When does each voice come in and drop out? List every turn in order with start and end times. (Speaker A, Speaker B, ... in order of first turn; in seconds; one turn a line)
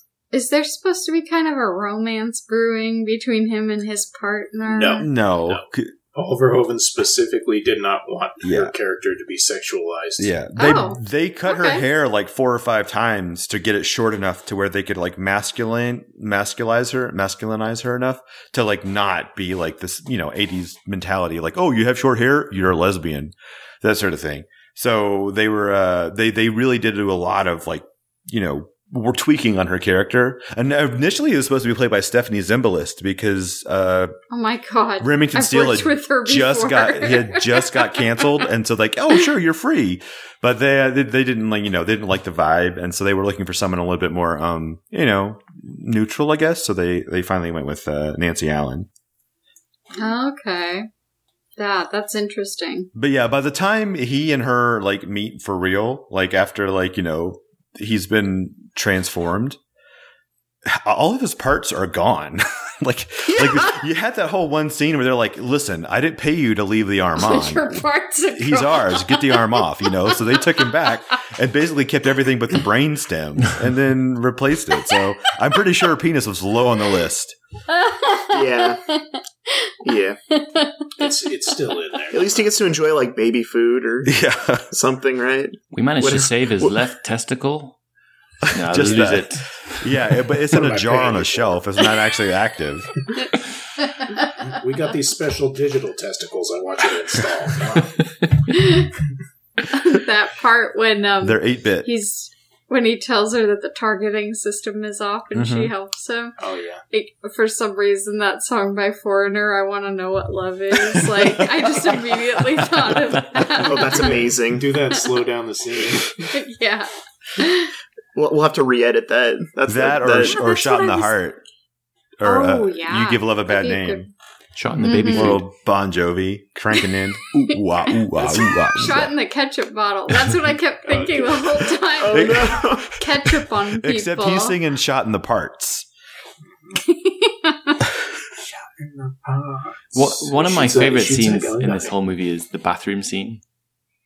Speaker A: 0.3-5.1
Speaker B: 4.7-10.3
Speaker C: 5.0-5.9
Speaker C: 8.4-8.7
Speaker C: 10.2-34.1
Speaker A: 10.6-11.8
Speaker A: 34.3-38.0
Speaker C: 35.0-48.9
Speaker A: 50.0-50.9
Speaker A: 51.6-52.9
Speaker C: 53.0-59.6
Speaker C: 60.7-67.8
Speaker D: 63.3-63.8
Speaker A: 67.2-70.8
Speaker C: 68.3-77.4
Speaker A: 77.7-81.1
Speaker D: 78.3-78.8
Speaker D: 79.8-80.2
Speaker B: 81.0-82.5
Speaker D: 82.1-84.1
Speaker C: 84.1-84.7
Speaker D: 84.7-86.7
Speaker E: 85.7-87.8
Speaker C: 88.5-92.9
Speaker E: 88.5-89.9
Speaker B: 90.5-91.6
Speaker A: 93.8-94.3
Speaker B: 94.4-98.0
Speaker A: 98.5-98.9
Speaker A: 99.7-106.3
Speaker C: 101.2-101.9
Speaker C: 105.3-105.7
Speaker B: 106.4-106.8
Speaker A: 106.9-114.2
Speaker D: 113.6-114.7
Speaker B: 113.9-116.2
Speaker A: 116.3-117.7
Speaker D: 118.2-120.4
Speaker C: 119.7-121.4
Speaker A: 120.3-121.1
Speaker C: 122.2-124.1
Speaker A: 122.2-124.0
Speaker E: 124.5-125.4
Speaker A: 124.8-125.4
Speaker C: 125.1-129.1
Speaker B: 128.2-128.4
Speaker A: 128.3-134.6
Speaker B: 130.8-131.6
Speaker D: 132.0-132.9
Speaker C: 132.1-135.9
Speaker A: 136.8-137.9
Speaker B: 138.4-141.9
Speaker E: 139.9-143.4